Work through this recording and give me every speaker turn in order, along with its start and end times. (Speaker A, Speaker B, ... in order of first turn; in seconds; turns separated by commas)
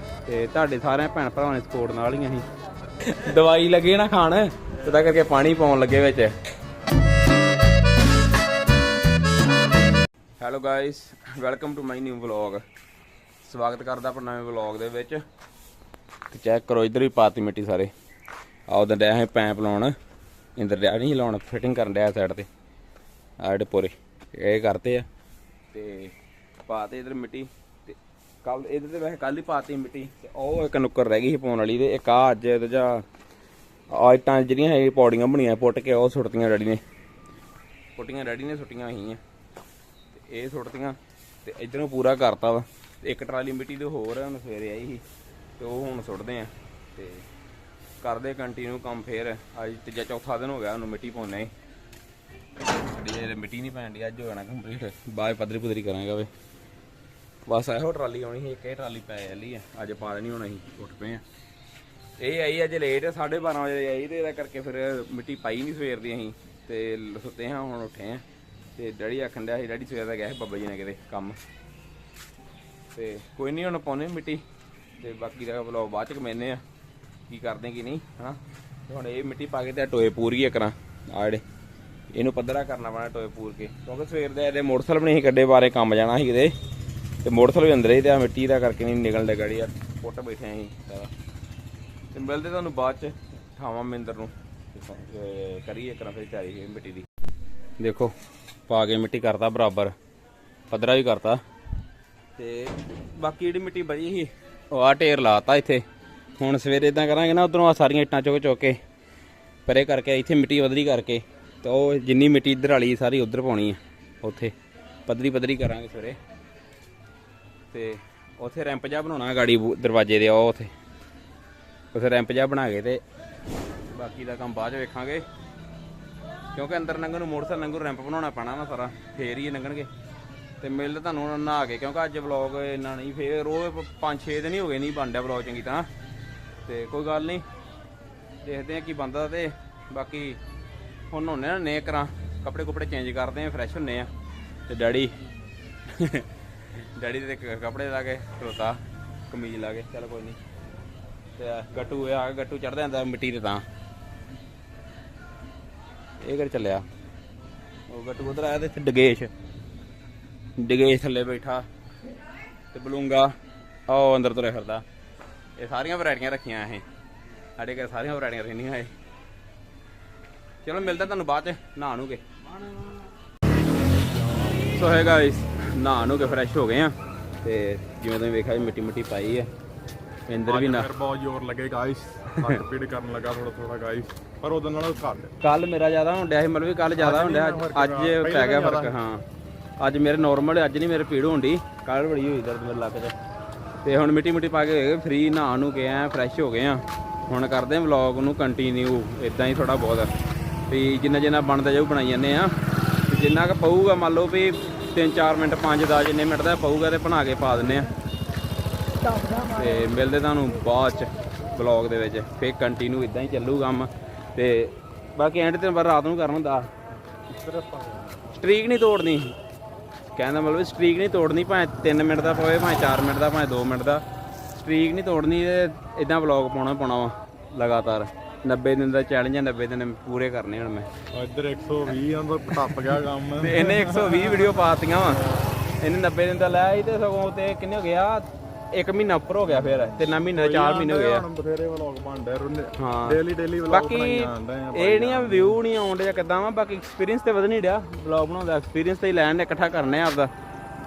Speaker A: 0.3-2.5, Speaker A: 3.0-6.3, Speaker A: 10.4-12.6, Speaker A: 13.4-15.2, Speaker A: 16.3-17.9, Speaker A: 18.7-19.9, Speaker A: 20.6-22.5, Speaker A: 23.4-25.1, Speaker A: 25.7-33.0, Speaker A: 33.9-36.8, Speaker A: 38.0-39.2, Speaker A: 40.1-45.0, Speaker A: 45.6-47.2, Speaker A: 48.0-51.5, Speaker A: 52.7-56.3, Speaker A: 57.5-61.2, Speaker A: 62.2-68.2, Speaker A: 68.8-71.4, Speaker A: 72.9-74.4, Speaker A: 75.0-76.6, Speaker A: 77.3-81.4, Speaker A: 82.1-86.5, Speaker A: 87.2-91.1, Speaker A: 92.1-97.1, Speaker A: 97.8-98.1, Speaker A: 98.7-99.9, Speaker A: 100.7-101.4, Speaker A: 102.4-105.8, Speaker A: 106.4-108.8, Speaker A: 109.7-114.5, Speaker A: 115.1-116.2, Speaker A: 117.7-120.7, Speaker A: 121.9-123.0, Speaker A: 123.9-125.2, Speaker A: 126.5-129.9, Speaker A: 130.6-135.9, Speaker A: 136.7-137.4, Speaker A: 138.4-140.4, Speaker A: 141.1-144.1, Speaker A: 144.7-145.2, Speaker A: 145.9-150.4, Speaker A: 151.4-153.7, Speaker A: 156.2-156.8, Speaker A: 157.9-159.3, Speaker A: 160.6-161.7, Speaker A: 162.7-163.3, Speaker A: 163.9-164.8, Speaker A: 165.6-166.8, Speaker A: 167.6-168.9, Speaker A: 170.6-172.2, Speaker B: 173.9-174.7, Speaker A: 174.7-179.5, Speaker A: 180.3-180.9, Speaker B: 180.4-185.3, Speaker A: 185.4-189.2, Speaker B: 187.0-188.9, Speaker A: 189.8-193.2, Speaker A: 193.8-200.1, Speaker A: 200.7-202.5, Speaker A: 203.1-207.9, Speaker A: 209.3-216.7, Speaker B: 217.3-218.2, Speaker A: 218.3-219.3, Speaker A: 220.1-230.9, Speaker B: 231.1-234.6, Speaker A: 233.4-235.2, Speaker A: 235.8-241.2, Speaker B: 239.5-245.6, Speaker A: 242.8-250.3